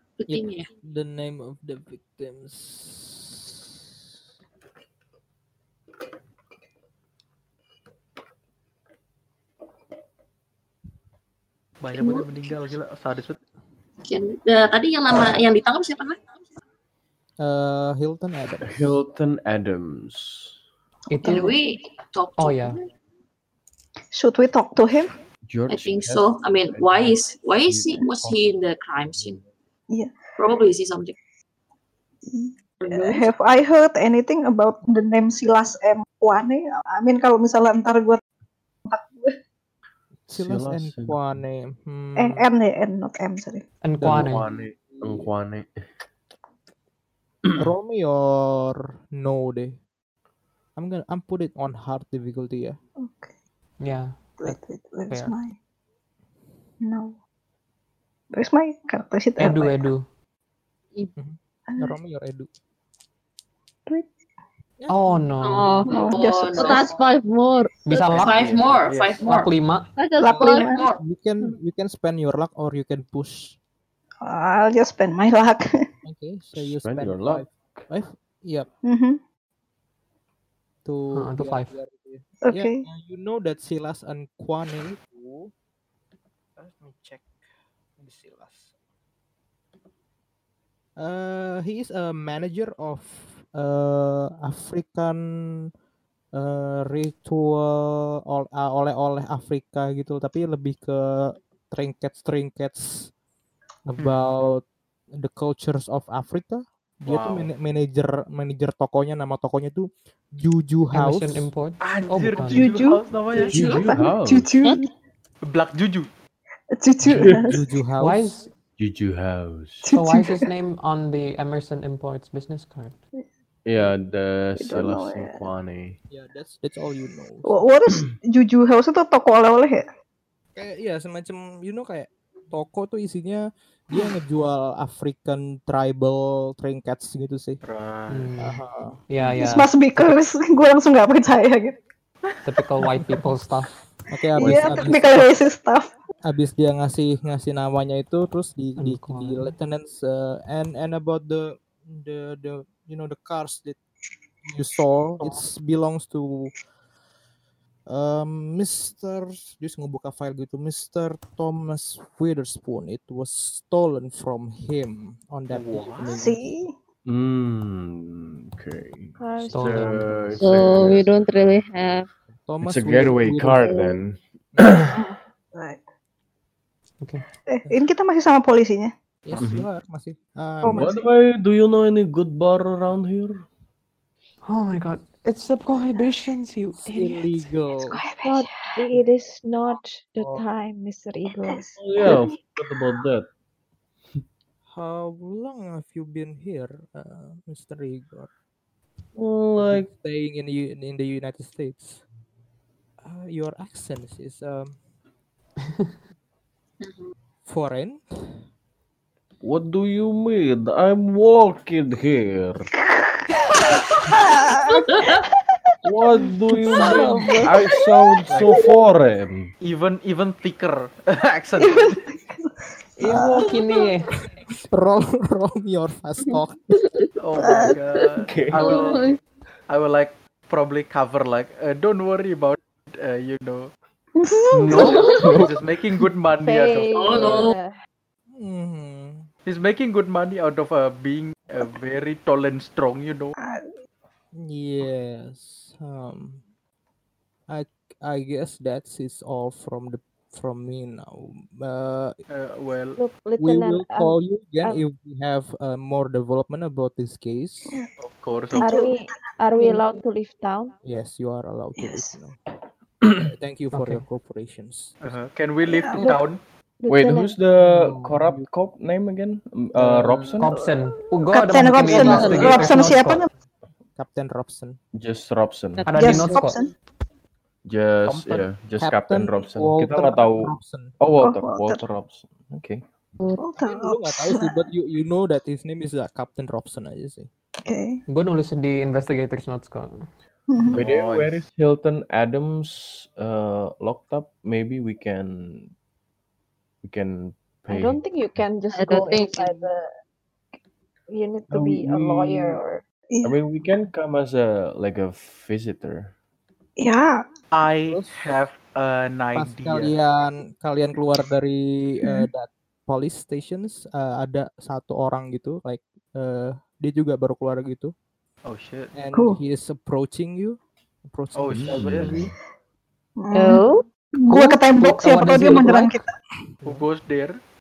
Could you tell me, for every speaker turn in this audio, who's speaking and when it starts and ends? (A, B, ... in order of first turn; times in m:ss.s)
0:00.2-0:00.7 A
0:00.3-0:03.3 B
0:11.8-0:13.4 C
0:12.0-0:12.3 A
0:14.1-0:16.2 A
0:17.4-0:18.9 B
0:18.6-0:20.6 D
0:21.1-0:21.6 E
0:21.1-0:21.6 F
0:21.2-0:22.8 A
0:22.4-0:22.8 E
0:24.1-0:25.1 F
0:25.5-0:28.4 D
0:25.7-0:29.4 A
0:29.1-0:29.4 D
0:30.4-0:31.2 A
0:32.3-0:38.2 F
0:32.8-0:33.3 A
0:38.9-0:39.4 F
0:40.3-0:41.3 D
0:40.3-0:42.5 B
0:42.2-0:43.6 F
0:43.8-0:44.5 E
0:44.0-0:45.3 B
0:44.0-0:45.9 D
0:47.4-0:47.7 D
0:47.6-0:49.8 B
0:50.8-0:52.8 B
0:53.0-0:53.3 F
0:53.8-0:54.6 E
0:54.4-0:55.6 F
0:55.1-0:55.4 E
0:56.8-0:57.2 F
0:58.3-0:59.8 F
0:59.4-1:00.1 E
1:01.2-1:02.5 B
1:01.7-1:02.0 F
1:04.8-1:05.2 B
1:04.9-1:05.8 E
1:05.4-1:07.8 G
1:05.9-1:06.9 F
1:06.0-1:07.0 A
1:07.8-1:08.7 E
1:07.9-1:09.5 A
1:08.2-1:08.7 D
1:08.9-1:09.2 C
1:09.2-1:09.9 E
1:10.0-1:10.7 G
1:10.2-1:10.8 F
1:10.2-1:13.6 B
1:10.6-1:11.0 A
1:14.2-1:15.8 F
1:16.0-1:18.7 B
1:16.5-1:17.9 D
1:18.8-1:19.2 F
1:20.8-1:25.5 B
1:21.1-1:21.7 E
1:22.5-1:22.8 F
1:26.6-1:27.3 B
1:28.0-1:28.7 B
1:31.0-1:35.2 B
1:36.4-1:43.1 B
1:43.8-1:44.6 B
1:45.2-1:51.5 B
1:47.0-1:47.5 C
1:50.9-1:52.9 E
1:51.8-1:53.6 C
1:52.4-1:54.9 F
1:53.5-1:54.6 D
1:55.4-1:56.1 C
1:56.8-1:57.6 F
1:57.2-1:57.5 D
1:57.5-1:58.5 B
1:58.0-1:58.5 E
1:58.8-1:59.9 D
1:59.9-2:00.5 F
1:59.9-2:03.0 E
2:03.7-2:06.0 D
2:04.6-2:05.5 F
2:06.1-2:07.6 B
2:07.4-2:09.9 F
2:10.6-2:17.6 B
2:17.6-2:18.3 C
2:18.1-2:20.1 E
2:18.4-2:19.0 B
2:19.3-2:21.8 F
2:22.4-2:23.8 E
2:24.1-2:25.3 B
2:24.4-2:25.9 F
2:26.3-2:33.8 B
2:28.8-2:29.6 E
2:34.5-2:36.5 B
2:37.9-2:46.4 B
2:45.5-2:46.2 C
2:46.2-2:46.7 F
2:47.1-2:51.1 D
2:49.2-2:49.8 H
2:49.5-2:50.4 E
2:50.4-2:52.1 G
2:52.4-2:53.8 B
2:52.6-2:55.0 D
2:53.6-2:53.9 G
2:55.0-2:55.8 F
2:57.5-2:58.9 F
2:59.2-3:00.9 B
2:59.4-2:59.7 D
3:00.6-3:01.1 F
3:00.6-3:03.5 D
3:04.4-3:07.5 E
3:06.8-3:08.0 B
3:07.9-3:08.9 F
3:08.2-3:11.7 H
3:11.4-3:12.4 F
3:11.8-3:13.3 D
3:14.7-3:18.3 B
3:19.2-3:19.9 D
3:19.6-3:22.0 B
3:23.0-3:24.8 B
3:27.5-3:28.4 B
3:29.4-3:32.7 D
3:34.1-3:35.1 F
3:35.8-3:39.5 D
3:36.6-3:38.6 F
3:38.3-3:38.6 C
3:39.6-3:42.0 C
3:41.6-3:43.9 F
3:43.0-3:44.1 E
3:44.7-3:46.7 B
3:46.8-3:47.1 G
3:47.2-3:49.1 C
3:47.4-3:47.8 F
3:48.3-3:48.7 D
3:48.6-3:49.2 G
3:49.7-3:53.7 C
3:54.2-3:55.0 F
3:54.6-3:55.0 E
3:54.7-3:57.5 C
3:55.1-3:55.7 D
3:56.4-3:57.7 H
3:56.9-3:57.6 A
3:58.4-3:59.3 B
3:59.5-4:03.4 C
4:03.4-4:03.7 F
4:04.4-4:06.4 B
4:07.5-4:12.2 B
4:12.3-4:13.0 C
4:13.0-4:14.8 H
4:13.4-4:17.8 B
4:18.0-4:18.7 C
4:18.5-4:19.3 F
4:18.6-4:20.8 H
4:20.8-4:22.4 B
4:21.8-4:22.1 F
4:23.2-4:25.2 B
4:23.7-4:24.0 E
4:25.0-4:26.4 C
4:25.7-4:26.2 F
4:26.8-4:27.4 H
4:26.9-4:30.5 D
4:27.6-4:28.5 B
4:29.8-4:30.4 B
4:30.4-4:33.3 E
4:30.5-4:33.3 F
4:31.9-4:32.4 D
4:32.0-4:32.6 B
4:32.1-4:32.6 C
4:34.0-4:34.8 B
4:35.0-4:35.9 D
4:35.8-4:36.6 G
4:35.9-4:36.6 E
4:35.9-4:36.7 F
4:37.6-4:42.8 D
4:38.1-4:38.5 C
4:38.8-4:40.9 B
4:41.2-4:41.8 F
4:43.2-4:43.5 G
4:43.4-4:44.6 F
4:43.6-4:47.3 B
4:47.7-4:48.0 F
4:48.1-4:50.1 E
4:50.5-4:50.8 F
4:50.7-4:51.4 C
4:50.7-4:55.7 D
4:56.8-4:58.0 D
4:57.7-4:59.8 H
4:58.7-4:59.7 G
5:01.1-5:02.8 H
5:01.5-5:02.6 D
5:03.1-5:03.4 F
5:03.2-5:06.1 D
5:06.8-5:07.2 F
5:07.5-5:10.0 C
5:07.9-5:08.4 B
5:09.4-5:17.9 B
5:18.5-5:18.9 C
5:18.9-5:20.6 B
5:19.1-5:19.4 F
5:21.1-5:22.3 B
5:21.4-5:22.3 C
5:21.5-5:22.3 D
5:23.2-5:26.0 F
5:23.4-5:23.8 H
5:24.3-5:26.0 E
5:26.6-5:27.4 C